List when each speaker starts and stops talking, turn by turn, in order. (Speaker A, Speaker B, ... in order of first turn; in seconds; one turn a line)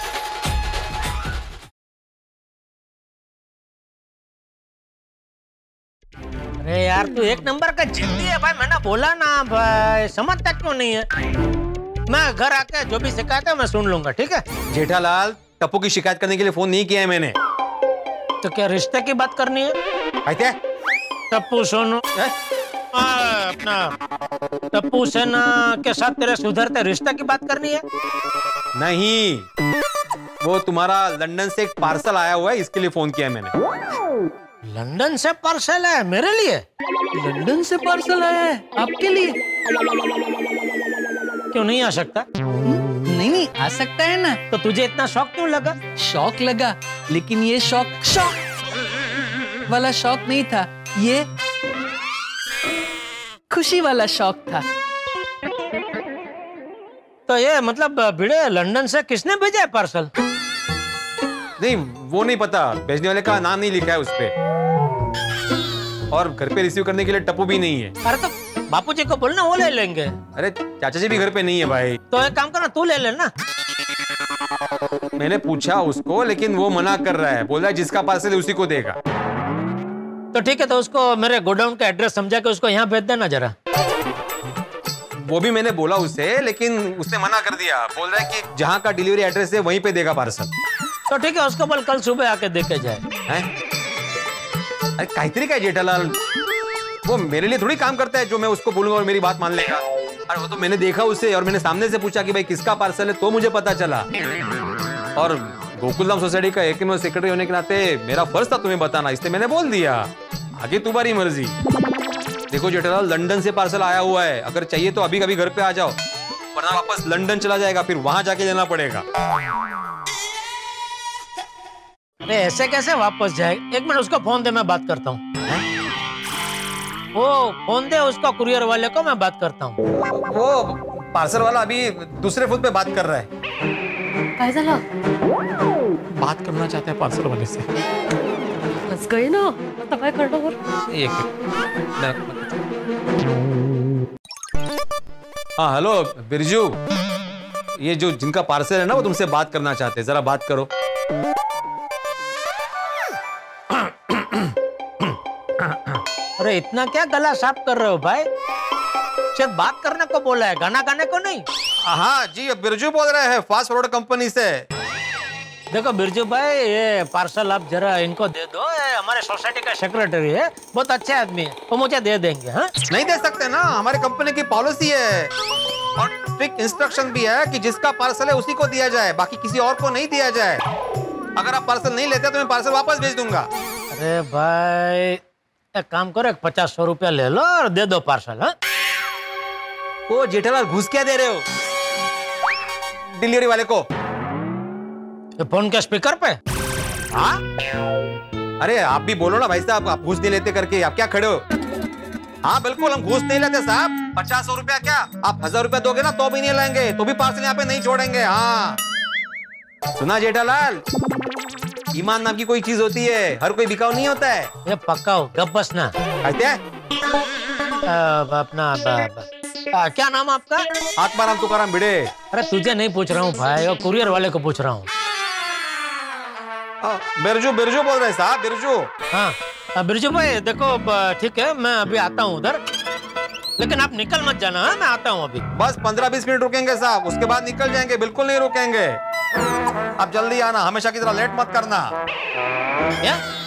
Speaker A: 6.6-11.1
Speaker A: 12.1-14.4
Speaker B: 14.7-17.4
Speaker A: 18.4-19.8
Speaker B: 20.3-20.6
Speaker A: 21.3-22.0
Speaker A: 22.9-23.9
Speaker A: 24.7-27.8
Speaker B: 28.8-29.5
Speaker B: 30.4-33.5
Speaker A: 34.7-36.6
Speaker C: 37.1-39.4
Speaker A: 41.5-42.2
Speaker C: 42.6-44.4
Speaker A: 44.5-45.8
Speaker C: 46.0-48.4
Speaker C: 49.7-51.2
Speaker C: 53.5-54.6
Speaker A: 57.3-60.1
Speaker B: 61.6-64.3
Speaker B: 66.1-68.0
Speaker A: 68.0-70.2
Speaker B: 70.3-72.0
Speaker A: 72.1-73.3
Speaker B: 75.2-79.0
Speaker A: 80.3-83.5
Speaker B: 85.2-90.5
Speaker A: 91.1-93.0
Speaker B: 95.0-96.2
Speaker B: 97.0-104.1
Speaker B: 105.2-111.5
Speaker B: 112.5-116.0
Speaker B: 116.6-119.0
Speaker A: 122.2-125.2
Speaker A: 127.2-129.8
Speaker B: 130.1-133.3
Speaker D: 134.4-134.8
Speaker B: 136.2-137.7
Speaker D: 138.9-140.6
Speaker B: 140.9-141.3
Speaker B: 141.8-142.6
Speaker B: 145.6-146.8
Speaker B: 147.8-150.7
Speaker B: 153.8-154.5
Speaker B: 155.7-156.0
Speaker A: 156.4-158.3
Speaker A: 159.3-161.5
Speaker B: 161.9-164.7
Speaker A: 165.7-172.7
Speaker B: 172.9-175.3
Speaker B: 176.0-180.6
Speaker B: 181.4-183.5
Speaker A: 183.9-185.2
Speaker A: 185.8-188.5
Speaker B: 190.1-191.4
Speaker B: 193.2-193.9
Speaker A: 195.4-196.4
Speaker B: 198.6-201.4
Speaker B: 202.4-208.8
Speaker B: 210.0-210.8
Speaker B: 211.9-214.5
Speaker A: 214.7-215.9
Speaker B: 216.2-216.6
Speaker A: 217.9-220.7
Speaker B: 221.0-222.1
Speaker A: 222.3-224.9
Speaker B: 226.8-228.9
Speaker A: 229.1-232.6
Speaker A: 233.6-235.4
Speaker B: 235.5-239.0
Speaker B: 240.0-241.9